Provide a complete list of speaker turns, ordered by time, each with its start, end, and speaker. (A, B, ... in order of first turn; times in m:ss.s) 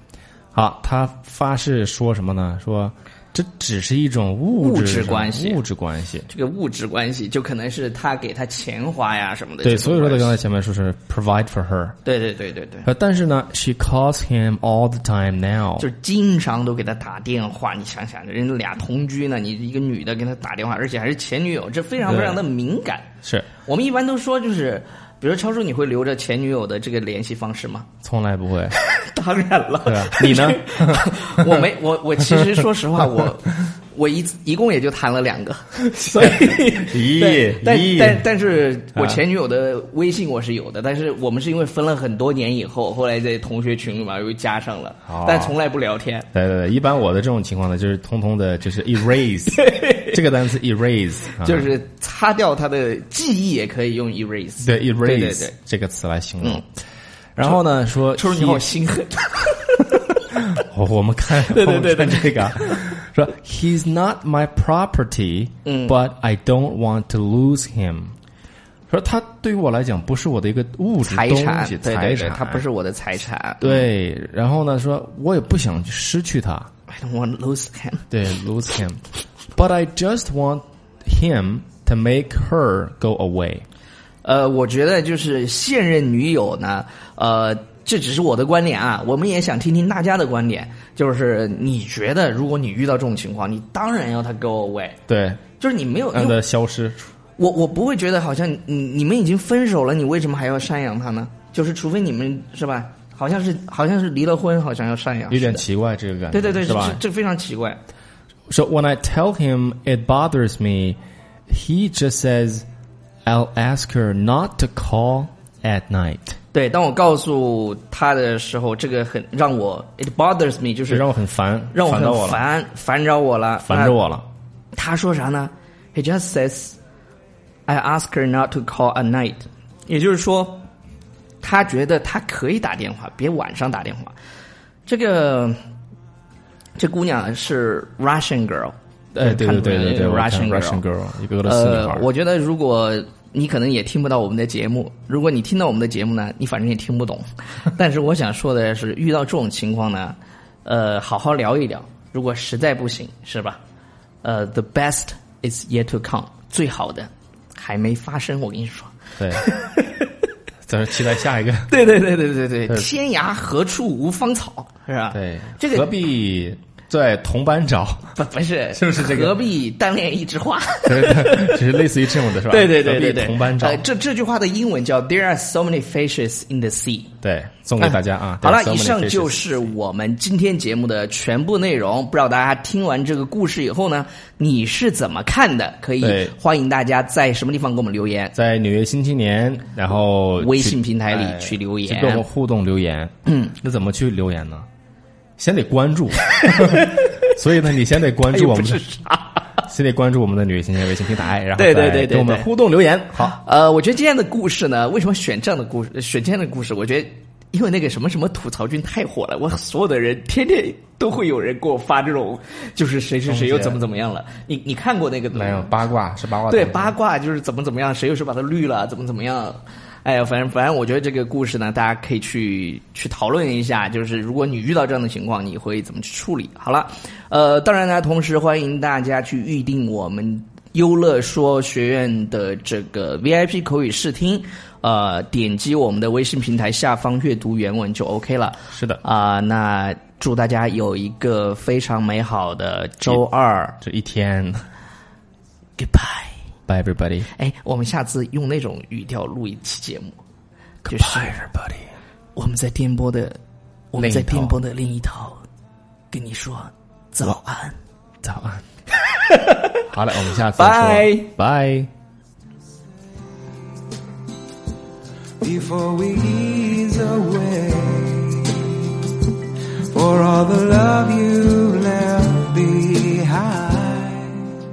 0:00.5-0:06.3 A
0:04.6-0:05.6 B
0:06.3-0:10.4 B
0:09.6-0:12.0 A
0:12.0-0:12.9 B
0:12.9-0:15.9 A
0:15.8-0:27.9 B
0:22.1-0:22.4 A
0:23.2-0:23.5 A
0:28.0-0:28.8 A
0:28.7-0:46.3 B
0:29.8-0:31.7 A
0:32.2-0:32.7 A
0:36.1-0:38.3 A
0:39.0-0:39.2 A
0:45.1-0:45.6 A
0:46.3-0:51.7 A
0:49.5-0:50.2 B
0:51.4-0:55.5 B
0:54.6-0:56.6 A
0:57.4-0:58.6 A
0:58.2-1:00.0 B
1:00.6-1:08.2 A
1:01.4-1:02.9 B
1:05.6-1:06.0 B
1:08.9-1:12.6 A
1:11.0-1:13.9 B
1:13.6-1:16.7 A
1:16.9-1:18.1 B
1:18.1-1:19.0 A
1:19.6-1:23.6 A
1:24.2-1:35.0 B
1:35.1-1:35.4 A
1:35.6-1:36.4 B
1:36.1-1:37.0 A
1:37.4-1:45.6 B
1:45.3-1:47.0 A
1:46.3-1:47.8 B
1:48.5-1:52.7 A
1:53.2-1:56.3 A
1:56.5-2:01.1 B
2:00.9-2:02.5 A
2:01.7-2:04.0 B
2:03.6-2:04.3 A
2:04.8-2:06.8 B
2:07.7-2:10.6 B
2:11.4-2:14.2 B
2:14.9-2:15.6 B
2:16.8-2:20.8 B
2:19.2-2:22.1 A
2:21.4-2:33.6 B
2:34.2-2:40.1 B
2:39.2-2:39.5 A
2:40.7-2:41.7 A
2:41.7-2:45.9 B
2:45.1-2:48.2 A
2:48.2-2:51.7 B
2:48.7-2:49.4 A
2:50.9-2:53.8 A
2:52.4-2:57.1 B
2:57.2-2:59.7 A
2:57.8-3:08.4 B
3:06.0-3:06.4 A
3:08.4-3:14.7 A
3:10.4-3:12.2 B
3:13.3-3:13.5 B
3:15.4-3:18.8 A
3:16.3-3:17.4 B
3:18.0-3:19.5 B
3:19.7-3:23.4 A
3:21.6-3:22.5 B
3:23.2-3:35.7 B
3:33.2-3:33.8 A
3:35.3-3:37.0 A
3:36.5-4:03.8 B
3:58.7-3:59.0 A
4:03.8-4:04.7 A
4:05.8-4:06.4 B
4:06.7-4:07.3 A
4:07.3-4:10.2 B
4:10.8-4:11.9 A
4:10.9-4:11.4 B
4:12.4-4:13.4 B
4:13.9-4:15.4 B
4:14.0-4:14.6 A
4:16.1-4:17.8 B
4:18.2-4:18.6 A
4:19.0-4:19.8 B
4:19.9-4:21.9 A
4:20.6-4:21.3 B
4:25.4-4:29.2 C
4:29.9-4:34.6 C